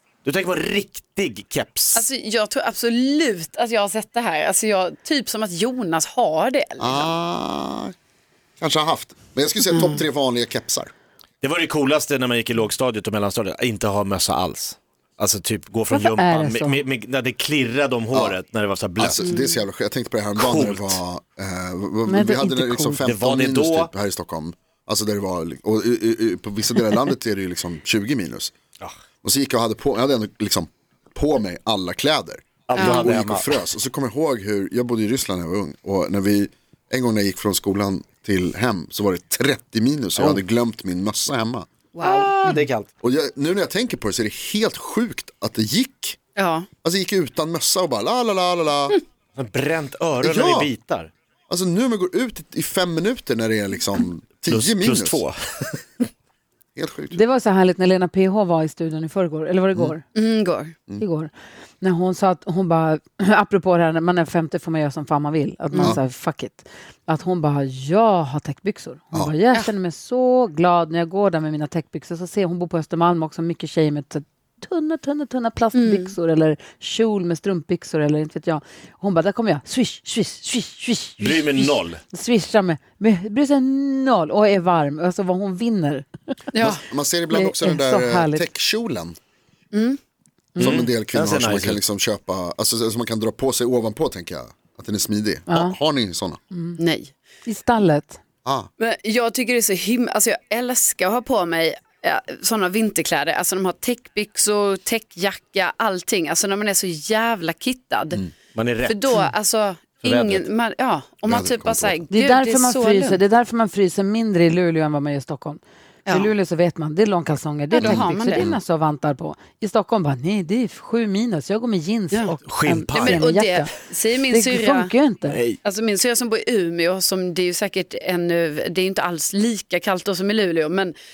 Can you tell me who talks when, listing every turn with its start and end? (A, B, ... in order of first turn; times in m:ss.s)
0:00.2-0:02.1 A
0:01.9-0:07.1 B
0:06.8-0:07.9 C
0:08.6-0:10.9 C
0:09.7-0:10.0 B
0:11.4-0:19.3 A
0:15.9-0:16.8 D
0:18.1-0:18.4 C
0:19.0-0:28.5 C
0:19.2-0:19.6 B
0:20.4-0:21.0 A
0:22.0-0:23.0 D
0:23.0-0:23.9 A
0:29.2-0:41.7 C
0:32.7-0:33.6 A
0:32.8-0:33.1 B
0:40.2-0:40.4 A
0:41.9-0:42.3 B
0:42.0-0:42.9 A
0:43.0-0:46.2 C
0:46.4-0:46.7 B
0:46.8-0:49.0 C
0:49.4-0:51.1 A
0:50.2-0:50.7 C
0:51.5-0:55.2 C
0:54.5-0:56.0 A
0:56.8-0:57.2 C
0:57.1-1:00.0 D
1:00.1-1:00.7 B
1:01.0-1:26.0 D
1:05.7-1:06.0 B
1:15.7-1:16.1 B
1:21.2-1:22.0 A
1:26.5-1:26.8 B
1:26.6-1:29.2 C
1:27.3-1:28.5 D
1:29.7-1:30.0 B
1:30.6-1:30.8 D
1:30.6-1:36.4 C
1:30.6-1:31.8 A
1:35.5-1:35.8 D
1:36.5-1:36.8 D
1:36.8-1:37.1 B
1:37.4-1:38.2 D
1:38.4-1:38.7 C
1:38.8-1:48.2 B
1:48.5-1:49.3 A
1:48.8-1:53.2 B
1:50.0-1:50.5 A
1:51.2-1:52.0 C
1:52.1-2:03.7 D
1:56.1-1:56.3 B
1:57.7-1:58.5 B
1:57.8-1:58.6 C
2:02.4-2:03.2 A
2:02.9-2:04.9 B
2:04.3-2:05.4 D
2:05.3-2:05.6 A
2:05.6-2:11.0 B